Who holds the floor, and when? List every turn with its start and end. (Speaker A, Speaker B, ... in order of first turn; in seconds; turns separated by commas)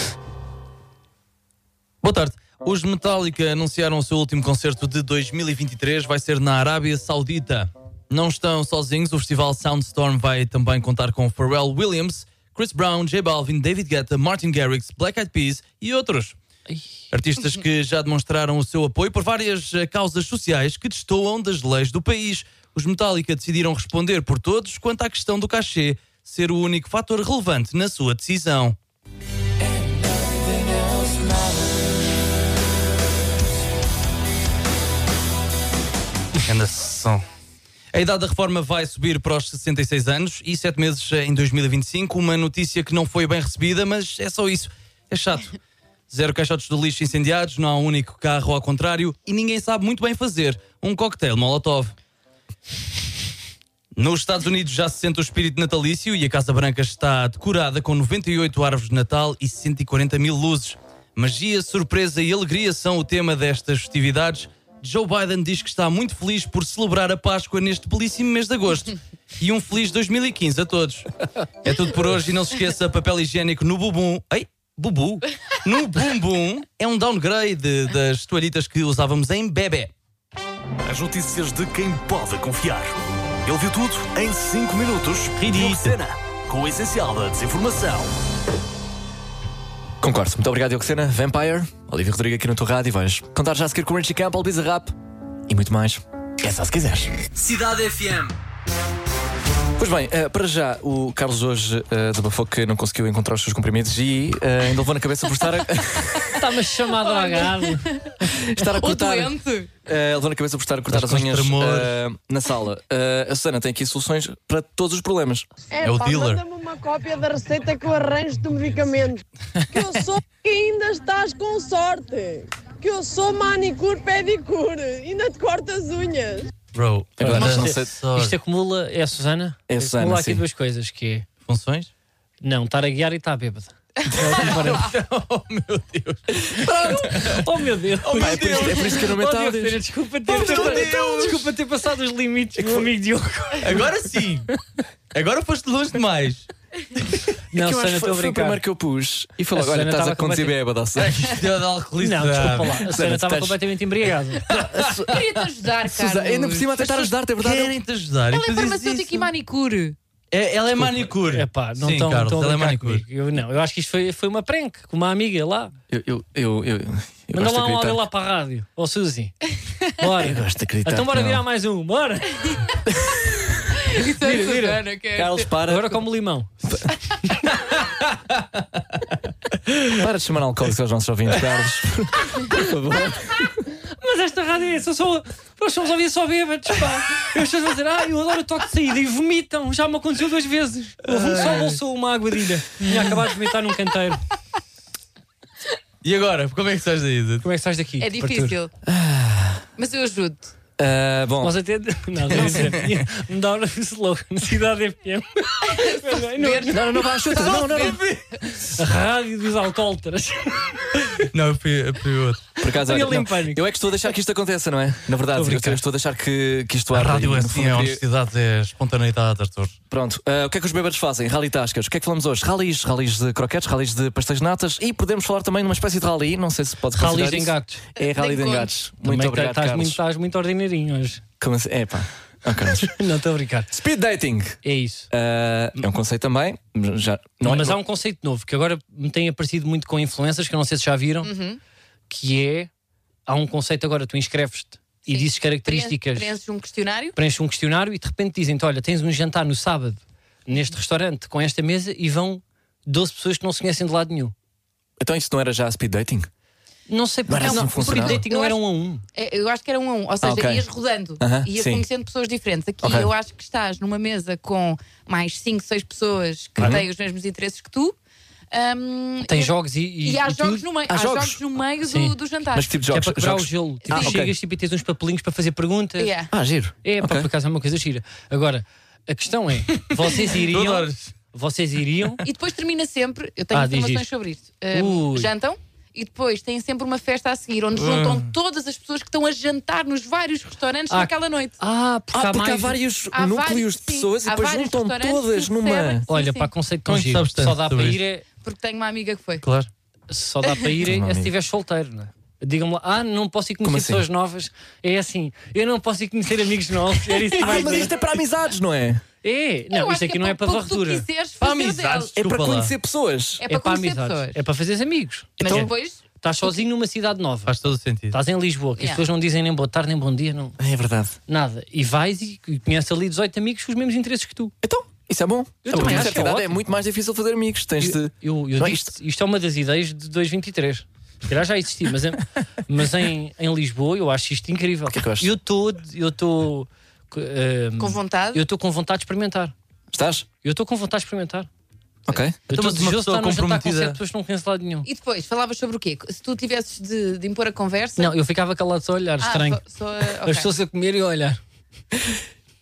Speaker A: 2.0-16.4, Speaker A: 17.1-28.8, Speaker B: 30.7-31.1, Speaker A: 36.4-37.2, Speaker A: 37.9-45.6, Speaker A: 46.1-51.9, Speaker A: 54.0-71.1, Speaker A: 71.6-79.9, Speaker C: 80.8-88.1, Speaker A: 85.4-86.0, Speaker B: 90.0-95.0, Speaker B: 95.5-97.1, Speaker C: 97.3-98.3, Speaker B: 99.8-106.3, Speaker D: 106.3-108.0, Speaker E: 106.9-109.7, Speaker B: 108.2-115.5, Speaker A: 110.9-112.0, Speaker F: 115.7-126.5, Speaker A: 115.8-116.4, Speaker A: 126.7-128.4, Speaker B: 127.2-127.9, Speaker D: 127.2-131.3, Speaker B: 129.7-130.4, Speaker A: 131.5-131.9, Speaker D: 132.4-134.9, Speaker A: 134.1-137.4, Speaker B: 136.5-137.3, Speaker D: 136.7-143.9, Speaker A: 138.0-139.1, Speaker B: 138.1-141.4, Speaker A: 140.3-141.5, Speaker B: 142.6-142.9, Speaker A: 143.6-144.5, Speaker A: 145.1-146.5, Speaker D: 147.5-148.6, Speaker B: 147.5-151.4, Speaker D: 149.5-150.6, Speaker A: 151.0-152.8, Speaker D: 152.0-154.7, Speaker B: 152.7-153.6, Speaker A: 154.5-155.1, Speaker B: 154.5-155.2, Speaker E: 155.1-157.0, Speaker B: 155.9-157.8, Speaker A: 157.4-159.3, Speaker E: 158.3-160.0, Speaker A: 160.3-163.0, Speaker B: 160.8-161.1, Speaker D: 161.2-165.7, Speaker B: 165.9-168.0, Speaker D: 167.3-169.4, Speaker D: 170.0-172.6, Speaker B: 170.2-171.4, Speaker E: 173.7-175.5, Speaker D: 174.0-174.8, Speaker B: 175.1-176.1, Speaker D: 175.6-176.5, Speaker B: 179.8-183.7, Speaker D: 184.0-194.2, Speaker A: 191.1-191.8, Speaker A: 192.8-193.2, Speaker A: 196.0-197.4, Speaker D: 197.4-198.6, Speaker E: 198.0-198.7, Speaker B: 198.8-199.7, Speaker E: 199.8-200.5, Speaker B: 200.8-201.6, Speaker D: 201.4-207.1, Speaker A: 202.4-203.0, Speaker E: 205.7-208.0, Speaker B: 206.7-208.0, Speaker A: 207.4-208.7, Speaker D: 208.6-211.3, Speaker A: 211.2-212.4, Speaker B: 212.6-218.0, Speaker D: 212.7-213.7, Speaker D: 215.3-215.8, Speaker A: 216.9-219.8, Speaker B: 219.9-230.0, Speaker D: 226.9-227.8, Speaker E: 228.0-228.7, Speaker D: 229.0-231.2, Speaker B: 231.4-233.0, Speaker D: 232.7-233.7, Speaker B: 233.7-234.6, Speaker D: 234.6-235.1, Speaker B: 235.1-237.8, Speaker D: 237.4-241.3, Speaker E: 241.2-241.6, Speaker D: 242.1-242.7, Speaker D: 243.3-246.4, Speaker E: 245.1-247.2, Speaker D: 247.2-254.3, Speaker B: 255.0-256.3, Speaker D: 256.9-259.0, Speaker B: 257.3-258.2, Speaker E: 257.4-258.6, Speaker E: 259.1-268.0, Speaker B: 260.2-260.7, Speaker B: 261.2-261.9, Speaker B: 262.8-263.1, Speaker B: 266.6-266.9, Speaker E: 268.5-272.7, Speaker D: 269.3-270.6, Speaker B: 270.9-271.4, Speaker D: 271.8-272.2, Speaker B: 272.5-274.3, Speaker D: 272.9-276.1, Speaker E: 273.9-274.2, Speaker E: 276.0-276.3, Speaker B: 276.3-277.3, Speaker D: 276.8-282.2, Speaker A: 279.8-281.1, Speaker E: 282.2-291.6, Speaker D: 283.5-284.1, Speaker D: 284.7-285.3, Speaker A: 287.8-288.3, Speaker D: 290.9-292.8, Speaker B: 292.1-296.1, Speaker E: 293.1-296.5, Speaker D: 296.1-298.3, Speaker A: 296.9-298.0, Speaker E: 298.4-299.4, Speaker A: 299.4-299.7, Speaker D: 300.1-308.0, Speaker B: 300.8-301.3, Speaker B: 303.6-304.1, Speaker B: 307.3-309.0, Speaker D: 309.2-311.1, Speaker E: 309.7-312.1, Speaker A: 311.4-312.7, Speaker B: 312.2-313.4, Speaker E: 313.4-314.4, Speaker D: 313.5-317.6, Speaker E: 315.4-316.5, Speaker B: 315.4-315.7, Speaker A: 317.5-318.2, Speaker D: 318.1-320.6, Speaker E: 318.8-319.0, Speaker B: 320.6-321.2, Speaker D: 321.3-324.5, Speaker B: 324.6-328.9, Speaker D: 325.6-326.6, Speaker D: 327.8-339.5, Speaker B: 334.9-335.3, Speaker E: 337.8-338.4, Speaker B: 339.9-340.3, Speaker D: 340.4-341.5, Speaker B: 342.1-342.4, Speaker D: 342.5-344.9, Speaker A: 342.5-344.0, Speaker E: 344.9-348.1, Speaker D: 348.0-351.4, Speaker E: 349.2-350.5, Speaker B: 351.9-352.2